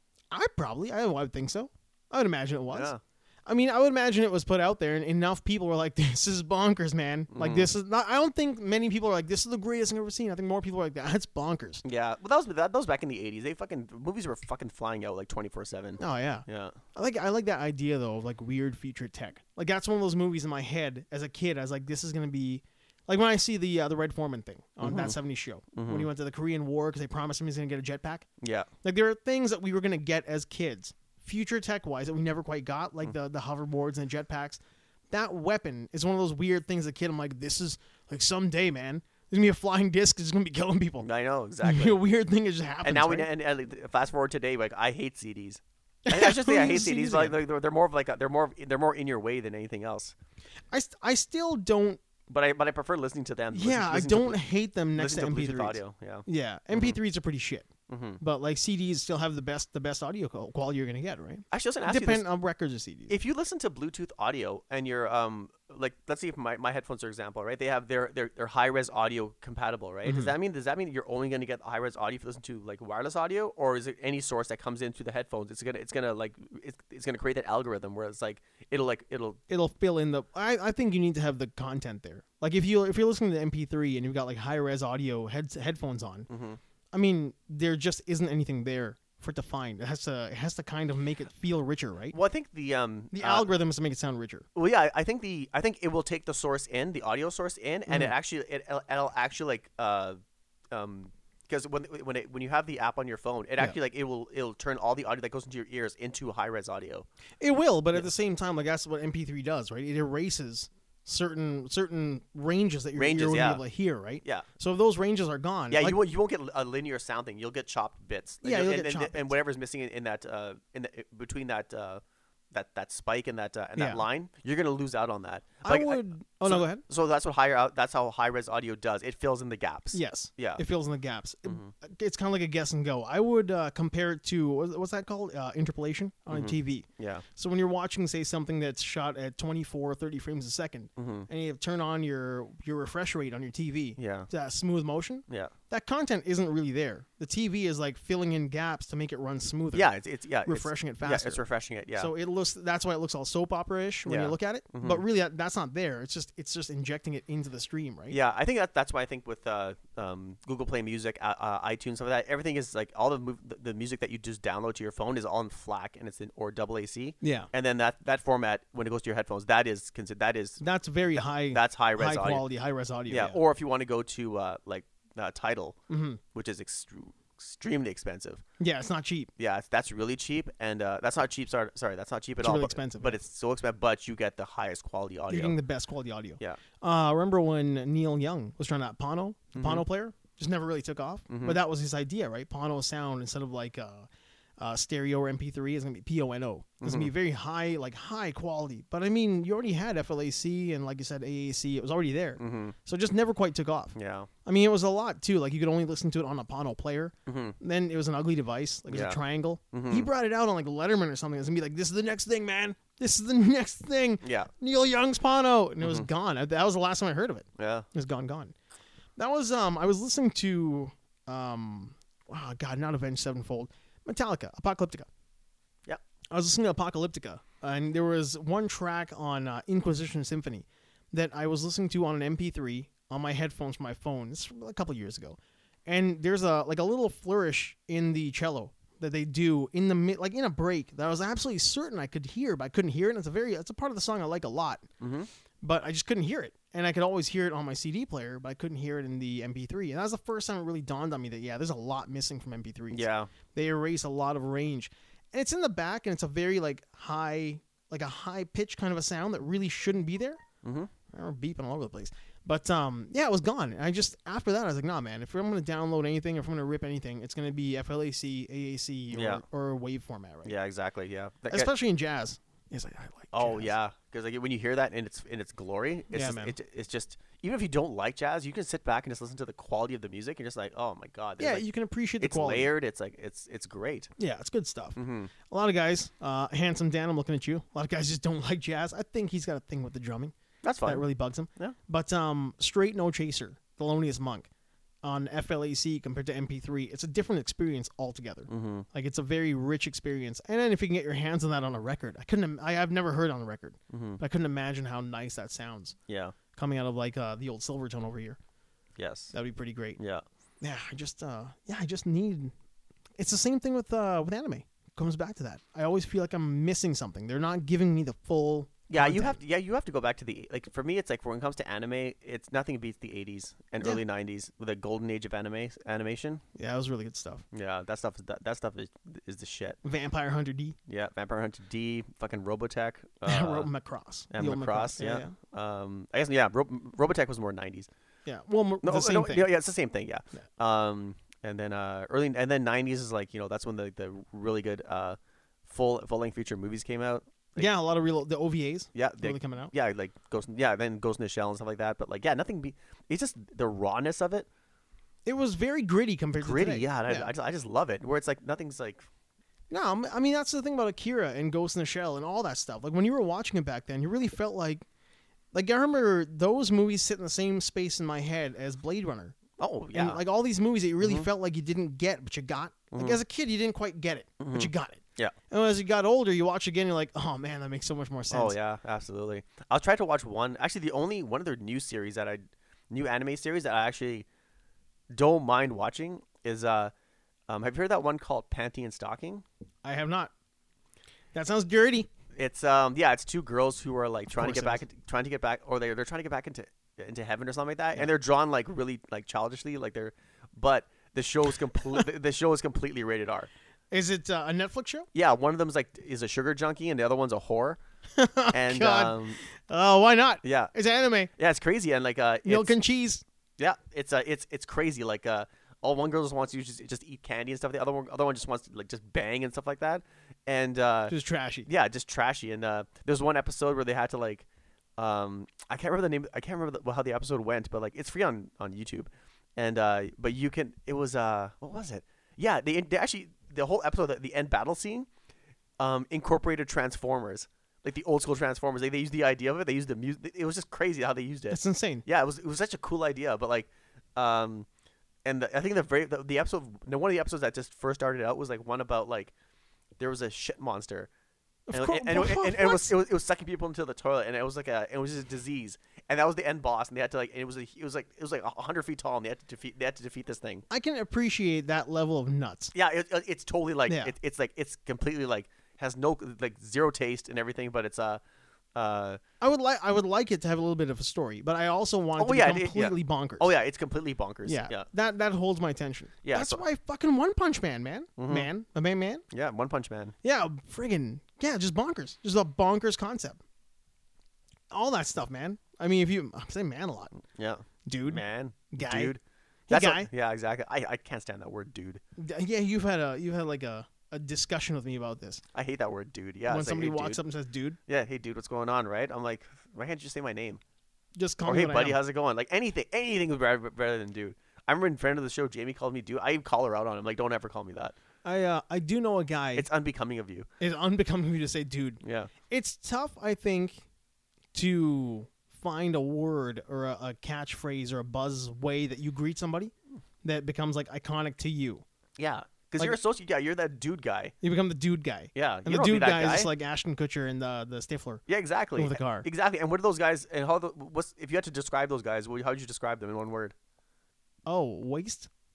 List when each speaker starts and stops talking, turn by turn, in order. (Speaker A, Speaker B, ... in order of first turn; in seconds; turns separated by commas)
Speaker A: 0.3-2.9, Speaker B: 2.7-3.0, Speaker A: 3.5-11.8, Speaker B: 7.3-7.7, Speaker B: 11.8-16.8, Speaker A: 16.0-28.3, Speaker B: 24.8-25.2, Speaker B: 25.7-26.1, Speaker B: 28.4-28.7, Speaker A: 28.8-34.6, Speaker A: 35.1-41.1, Speaker B: 41.0-42.0, Speaker A: 41.6-43.3, Speaker B: 42.8-50.1, Speaker A: 46.1-47.4, Speaker A: 50.7-52.0, Speaker B: 52.3-54.4, Speaker A: 53.5-57.7, Speaker B: 55.0-57.0, Speaker B: 57.9-58.2, Speaker A: 58.2-63.1, Speaker B: 61.5-62.3, Speaker B: 63.1-79.4, Speaker A: 70.1-70.3, Speaker A: 79.5-86.3, Speaker B: 86.3-86.6, Speaker A: 86.9-92.2, Speaker B: 92.1-93.5, Speaker A: 93.1-94.5, Speaker B: 94.5-100.2, Speaker A: 97.9-98.1, Speaker B: 100.7-107.1, Speaker A: 107.4-116.0, Speaker B: 113.0-113.6, Speaker B: 115.7-122.0, Speaker A: 118.4-119.3, Speaker B: 122.5-130.6, Speaker A: 123.8-124.0, Speaker A: 125.6-126.8, Speaker A: 129.9-149.9, Speaker B: 131.5-131.7, Speaker B: 136.3-137.2, Speaker B: 141.0-141.3, Speaker B: 144.0-144.3, Speaker B: 149.7-152.1, Speaker A: 150.5-151.4, Speaker A: 152.0-158.2, Speaker B: 154.1-155.0, Speaker B: 158.1-170.6, Speaker A: 167.2-167.5, Speaker A: 170.6-173.4, Speaker B: 171.5-172.4, Speaker B: 173.1-175.8, Speaker A: 175.9-176.2, Speaker B: 176.3-178.4, Speaker A: 178.6-179.3, Speaker B: 179.4-185.6, Speaker A: 182.4-183.2, Speaker A: 185.3-194.1, Speaker B: 189.6-189.8, Speaker B: 191.3-191.6, Speaker A: 194.6-218.5, Speaker B: 196.8-197.1, Speaker B: 202.4-202.8, Speaker B: 203.9-204.3, Speaker B: 207.3-207.6, Speaker B: 208.9-209.2, Speaker B: 209.7-210.1, Speaker B: 214.2-214.5, Speaker B: 215.8-216.1, Speaker B: 217.6-217.9, Speaker A: 219.2-225.1, Speaker A: 226.3-244.9, Speaker B: 245.0-245.3, Speaker A: 245.6-260.4, Speaker B: 252.9-253.3, Speaker B: 260.6-260.9, Speaker A: 261.1-270.5, Speaker B: 269.1-269.4, Speaker B: 270.4-271.7, Speaker A: 271.5-273.7, Speaker B: 273.3-281.7, Speaker A: 276.1-276.6, Speaker A: 281.4-282.7, Speaker B: 282.2-284.1, Speaker A: 284.2-290.3, Speaker B: 285.0-285.3, Speaker B: 290.6-291.8, Speaker A: 290.9-294.5, Speaker A: 295.0-306.0, Speaker B: 298.5-298.9, Speaker B: 303.9-304.2, Speaker B: 306.1-306.4, Speaker A: 306.5-308.4, Speaker B: 309.0-309.3, Speaker A: 309.3-310.0, Speaker B: 310.0-310.2, Speaker A: 310.6-312.5, Speaker A: 313.2-319.4, Speaker B: 318.9-326.4, Speaker A: 326.6-327.4, Speaker B: 327.5-329.8, Speaker A: 329.8-330.8, Speaker B: 330.9-333.7, Speaker A: 333.2-335.4, Speaker B: 334.3-337.9, Speaker A: 338.3-339.5, Speaker B: 338.8-347.7, Speaker A: 347.6-349.7, Speaker B: 348.9-354.5, Speaker A: 355.3-357.3, Speaker B: 356.4-359.1, Speaker A: 359.7-364.9, Speaker A: 365.5-369.4, Speaker B: 369.6-370.2, Speaker A: 369.9-378.6, Speaker B: 371.0-371.3, Speaker B: 372.9-373.2, Speaker B: 374.4-375.3, Speaker B: 378.3-384.3, Speaker B: 385.1-386.9, Speaker B: 387.5-389.4, Speaker A: 389.8-390.3, Speaker A: 391.3-392.1, Speaker B: 392.3-403.5, Speaker A: 394.3-394.8, Speaker A: 403.9-405.1, Speaker B: 405.1-407.8, Speaker A: 408.2-411.3, Speaker B: 408.5-409.4, Speaker B: 410.4-410.7, Speaker B: 411.4-412.8, Speaker A: 412.5-413.2, Speaker B: 413.6-421.1, Speaker A: 421.1-421.7, Speaker B: 421.7-424.5, Speaker B: 425.0-435.1, Speaker B: 435.8-444.7, Speaker A: 441.5-442.1, Speaker B: 445.2-449.3, Speaker B: 450.0-451.1, Speaker A: 451.7-452.9, Speaker B: 451.7-460.6, Speaker A: 460.7-462.7, Speaker B: 462.7-468.2, Speaker A: 463.9-464.1, Speaker B: 468.8-469.2, Speaker A: 469.4-473.5, Speaker B: 472.2-474.9, Speaker A: 474.5-479.2, Speaker B: 476.2-476.6, Speaker B: 478.2-478.5, Speaker B: 479.3-480.1, Speaker A: 480.2-483.4, Speaker A: 484.7-487.2, Speaker B: 487.3-492.0, Speaker A: 487.9-489.1, Speaker A: 489.7-490.1, Speaker A: 492.2-495.4, Speaker B: 495.5-497.2, Speaker A: 496.5-497.8, Speaker B: 497.9-500.6, Speaker A: 501.2-502.0, Speaker B: 501.4-507.9, Speaker A: 508.2-509.7, Speaker B: 509.6-510.5, Speaker A: 510.6-513.8, Speaker B: 512.0-512.3, Speaker A: 514.5-519.7, Speaker A: 520.2-521.8, Speaker B: 522.2-524.3, Speaker A: 524.4-528.2, Speaker B: 525.4-526.5, Speaker B: 528.3-533.5, Speaker A: 528.8-529.3, Speaker A: 534.5-535.3